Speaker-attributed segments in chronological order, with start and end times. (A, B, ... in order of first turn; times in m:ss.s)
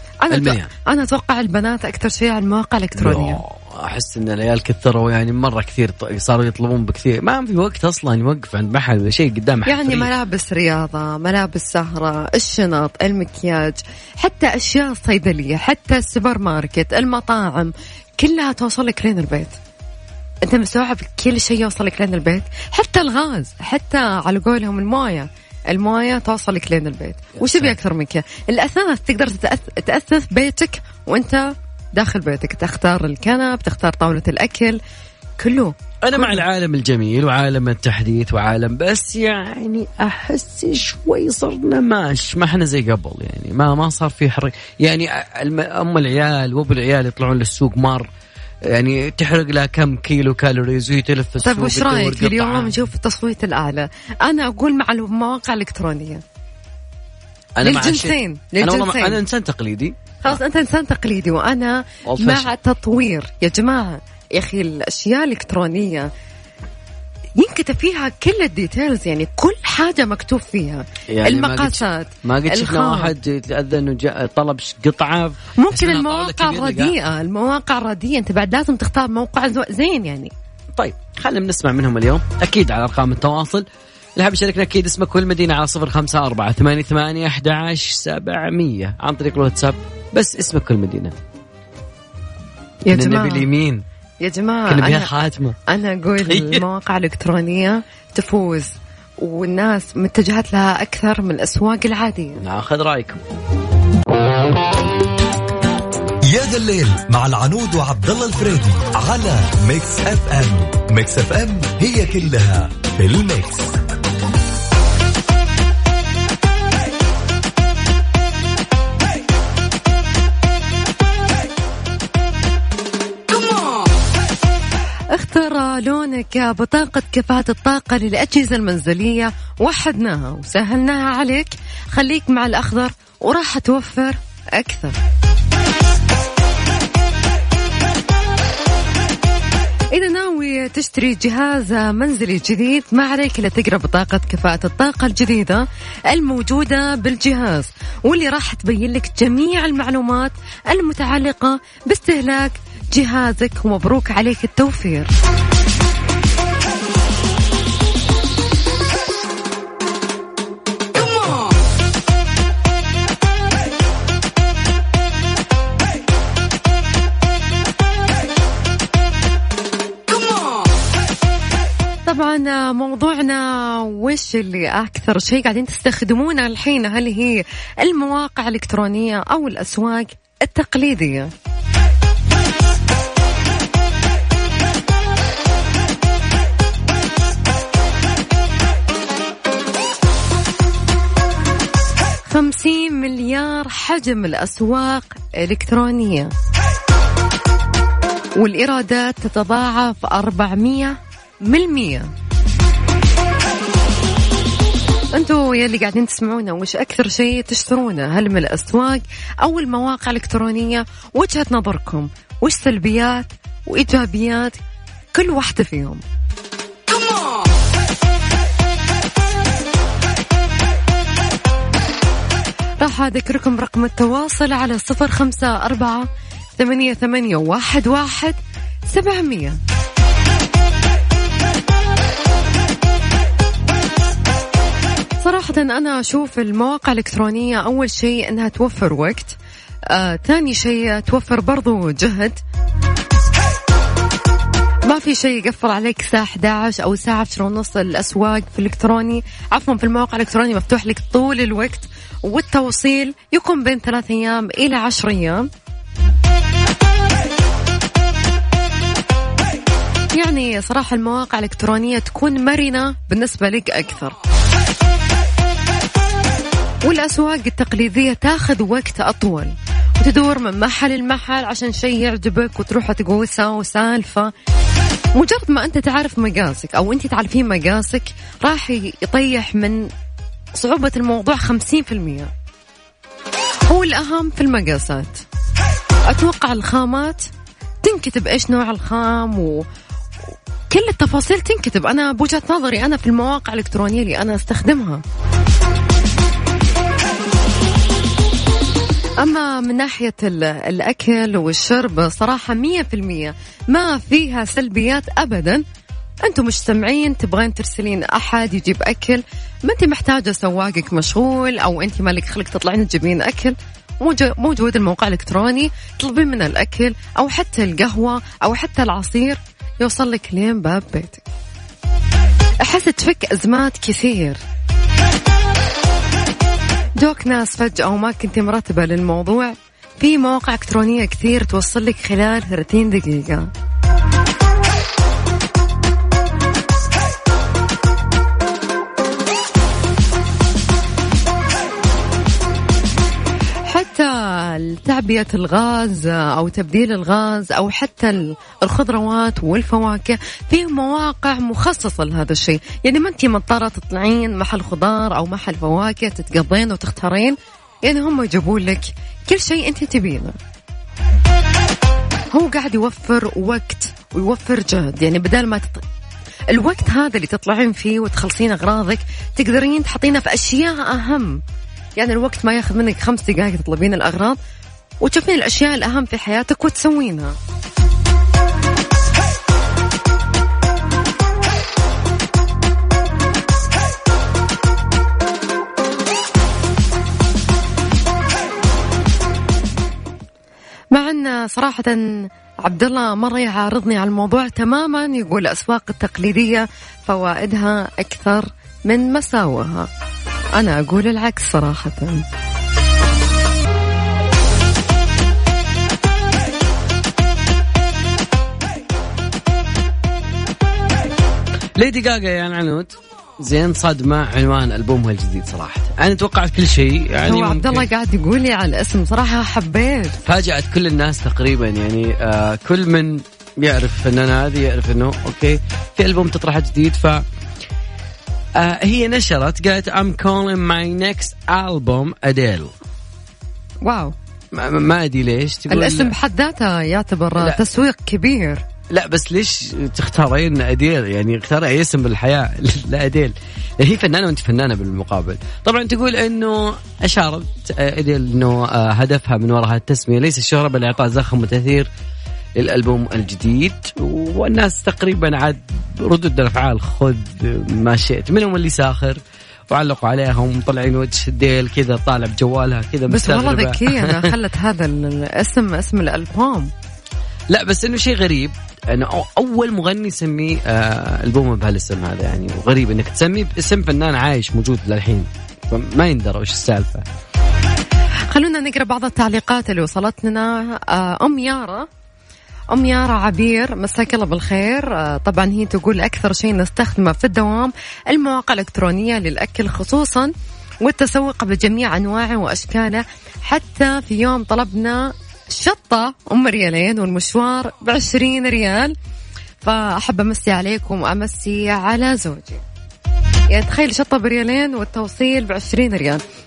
0:00.2-0:03.4 A
0:00.3-0:00.7 B
0:03.0-0:10.1 B
0:09.6-0:19.6 A
0:20.4-0:34.8 A
0:27.4-0:27.7 B
0:35.4-0:36.4 A
0:36.0-0:48.1 B
0:48.7-0:52.8 B
0:51.4-0:56.2 A
0:57.6-1:00.4 B
0:57.6-0:59.2 A
1:00.2-1:06.1 A
1:02.1-1:02.5 B
1:07.4-1:13.1 A
1:11.1-1:16.9 B
1:15.6-1:20.3 A
1:20.8-1:31.2 B
1:32.8-1:33.5 A
1:32.9-1:33.8 B
1:34.2-1:35.1 A
1:34.7-1:35.6 B
1:35.7-1:42.4 A
1:36.3-1:36.6 B
1:42.4-1:43.2 B
1:46.3-1:53.8 C
2:05.1-2:15.0 A
2:19.9-2:35.1 A
2:52.0-3:01.3 A
3:12.3-3:16.3 A
3:18.4-3:22.1 A
3:25.1-3:34.6 A
3:35.1-3:36.0 A
3:42.8-3:48.4 A
3:48.9-3:49.6 A
3:55.2-3:59.3 A
3:59.9-4:02.4 A
4:04.8-4:15.5 A
4:20.2-4:24.2 A
4:26.8-4:34.3 A
4:35.1-4:39.9 A
4:40.5-4:42.3 A
4:43.7-4:45.2 A
4:46.0-4:47.3 A
4:47.8-4:49.6 A
4:50.7-4:55.0 A
4:59.2-5:05.6 A
5:06.2-5:21.2 A
5:22.6-5:24.4 A
5:27.0-5:33.5 A
5:43.6-6:00.4 A
6:02.3-6:05.8 A
6:06.5-6:11.4 A
6:12.0-6:14.4 A
6:15.0-6:17.4 A
6:30.9-6:39.9 A
6:40.5-6:42.2 A
6:51.8-6:57.8 B
6:57.2-7:00.2 A
7:00.2-7:07.2 B
7:08.6-7:12.7 B
7:13.8-7:14.1 A
7:14.5-7:16.1 B
7:15.7-7:18.6 A
7:18.9-7:31.9 B
7:32.6-7:44.3 B
7:43.1-7:46.7 A
7:47.5-7:57.0 B
7:58.3-8:01.9 A
8:02.7-8:18.9 A
8:19.6-8:22.6 A
8:23.5-8:26.2 A